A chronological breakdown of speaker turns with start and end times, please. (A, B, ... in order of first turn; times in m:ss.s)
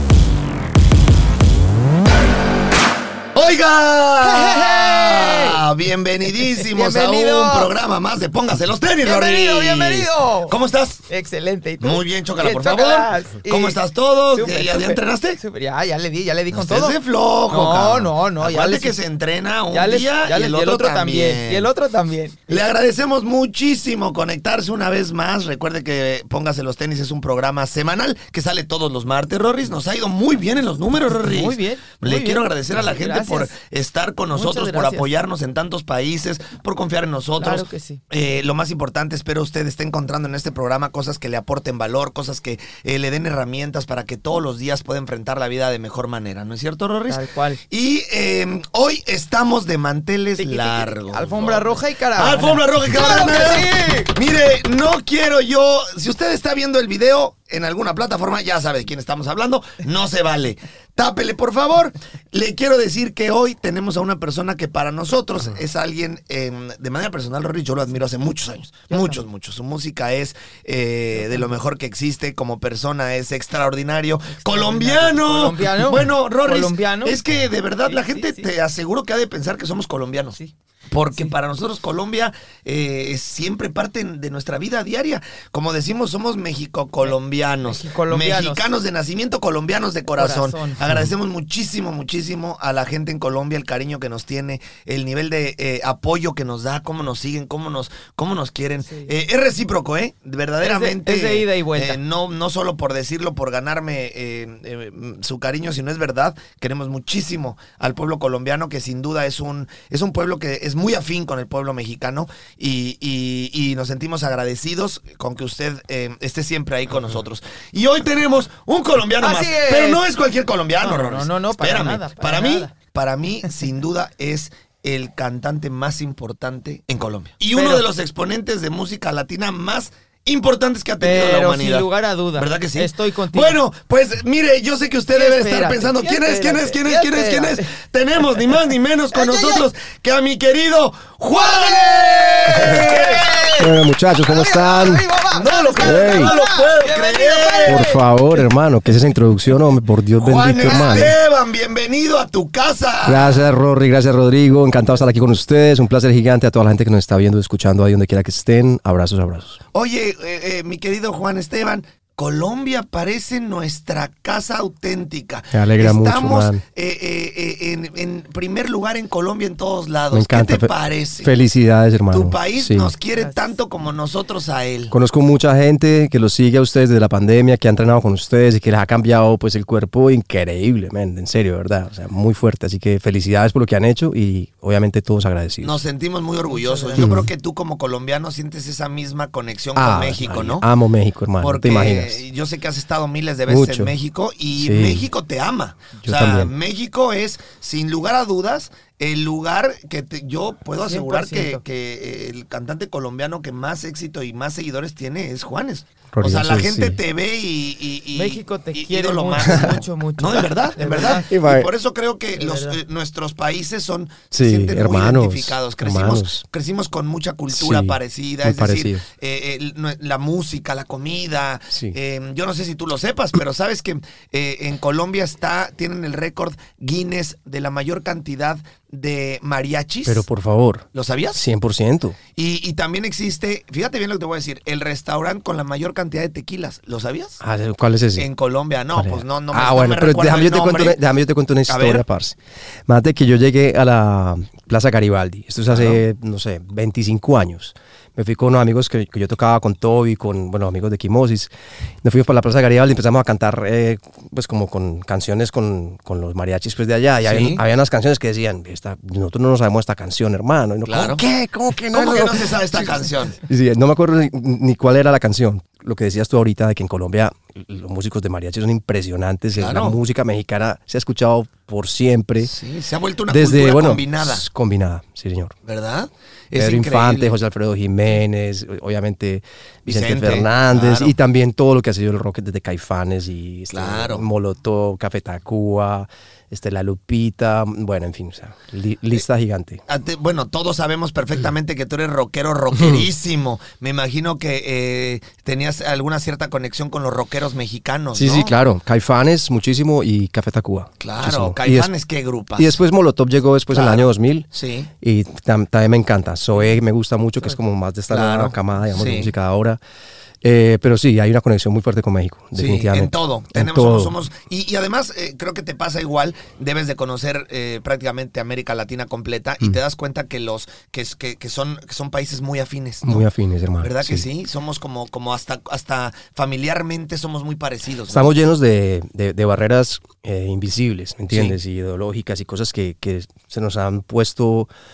0:03.3-0:11.0 A
0:04.2-0:05.6 B
0:06.4-0:07.7 B
0:09.0-0:10.6 B
0:11.1-0:13.8 B
0:11.8-0:15.4 A
0:14.3-0:17.0 B
0:16.5-0:21.7 A
0:17.5-0:19.0 B
0:19.7-0:22.6 B
0:22.5-1:20.4 A
0:31.0-0:33.5 B
0:34.3-0:35.1 B
0:37.4-0:38.0 B
0:47.1-0:47.6 B
0:50.4-0:54.1 B
1:08.9-1:09.2 B
1:11.2-1:11.4 B
1:14.3-1:17.2 B
1:17.9-1:18.5 B
1:20.9-2:23.5 A
1:27.0-1:28.7 B
1:30.2-1:30.8 B
1:40.6-1:42.0 B
1:59.2-2:00.0 B
2:00.8-2:02.7 B
2:07.5-2:07.8 B
2:11.0-2:13.6 B
2:15.1-2:17.7 B
2:19.1-2:19.7 B
2:21.3-2:28.5 B
2:22.6-2:22.9 C
2:23.6-2:25.1 C
2:25.3-2:27.9 A
2:25.8-2:26.3 C
2:27.7-2:31.2 C
2:30.2-2:33.4 A
2:30.6-2:31.1 B
2:33.0-2:39.6 C
2:39.7-2:51.3 A
2:45.5-2:46.6 C
2:50.1-2:52.9 C
2:52.1-2:54.9 A
2:53.2-2:53.5 B
2:54.9-3:05.8 C
3:05.6-3:10.7 A
3:06.5-3:07.1 B
3:07.0-3:07.3 C
3:09.8-3:12.2 C
3:11.4-3:50.2 A
3:13.5-3:13.9 C
3:14.6-3:15.1 C
3:16.0-3:16.5 C
3:20.8-3:21.6 B
3:26.1-3:27.0 C
3:28.1-3:31.3 B
3:29.4-3:29.8 C
3:31.1-3:31.7 C
3:32.4-3:32.8 B
3:34.3-3:36.4 C
3:37.5-3:39.0 C
3:50.1-3:52.2 C
3:50.9-3:51.4 A
3:52.4-3:57.4 A
3:57.4-3:58.3 C
3:58.2-4:01.0 A
3:58.9-4:11.5 C
4:01.7-4:02.0 A
4:05.7-4:06.0 A
4:12.0-4:22.9 C
4:17.2-4:17.6 A
4:20.9-4:21.2 A
4:21.9-4:23.4 A
4:23.5-4:32.5 C
4:29.6-4:30.0 A
4:32.4-4:34.4 A
4:33.3-4:35.6 C
4:35.7-4:37.3 A
4:36.5-4:49.8 C
4:39.9-4:41.1 A
4:43.7-4:44.2 A
4:49.9-4:58.5 A
4:52.7-4:53.1 C
4:58.1-5:01.9 C
5:01.0-5:02.8 A
5:02.6-5:04.5 C
5:03.7-5:04.9 A
5:05.0-5:09.8 C
5:08.1-5:09.3 A
5:10.4-5:14.2 C
5:12.6-5:23.2 A
5:23.0-5:24.2 C
5:23.8-5:28.3 A
5:28.1-5:34.7 C
5:31.3-5:31.6 A